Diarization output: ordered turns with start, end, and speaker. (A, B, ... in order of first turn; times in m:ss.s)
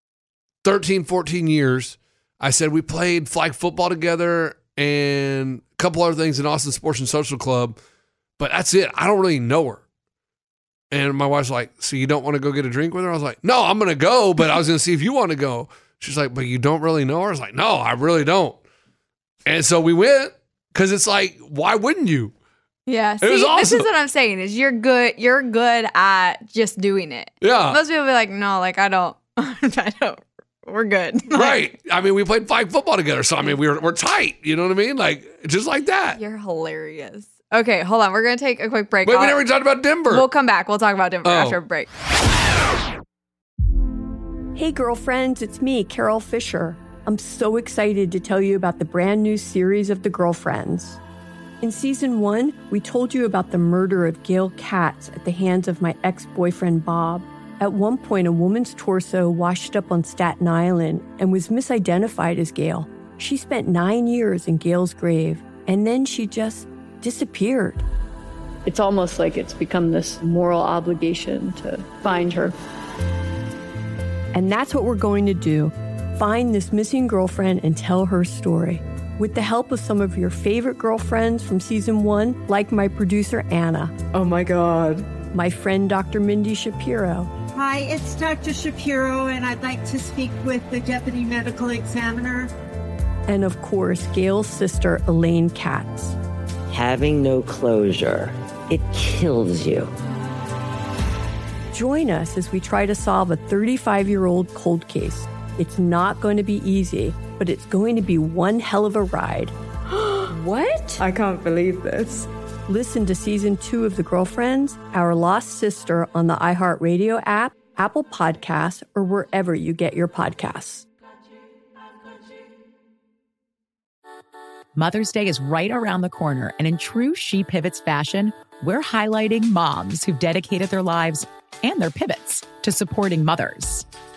0:00.6-0:07.8 A
0:08.4-0:09.8 A
0:10.9-0:18.6 A
0:19.4-0:22.3 A
0:22.9-0:31.6 B
0:23.2-0:23.9 A
0:27.4-0:27.8 A
0:31.3-0:36.2 A
0:36.1-0:39.4 B
0:39.0-0:40.3 A
0:40.1-0:41.9 B
0:41.2-0:41.6 A
0:44.6-0:51.0 C
0:51.6-1:07.8 C
1:08.6-1:12.6 D
1:14.3-1:24.0 C
1:24.1-1:25.2 D
1:25.3-1:27.3 C
1:27.5-1:32.5 E
1:33.3-1:36.2 C
1:36.7-1:39.9 F
1:41.7-1:49.5 C
1:50.0-1:50.3 D
1:50.3-1:51.0 C
1:51.0-1:52.3 D
1:52.7-2:00.8 C
2:04.8-2:13.9 G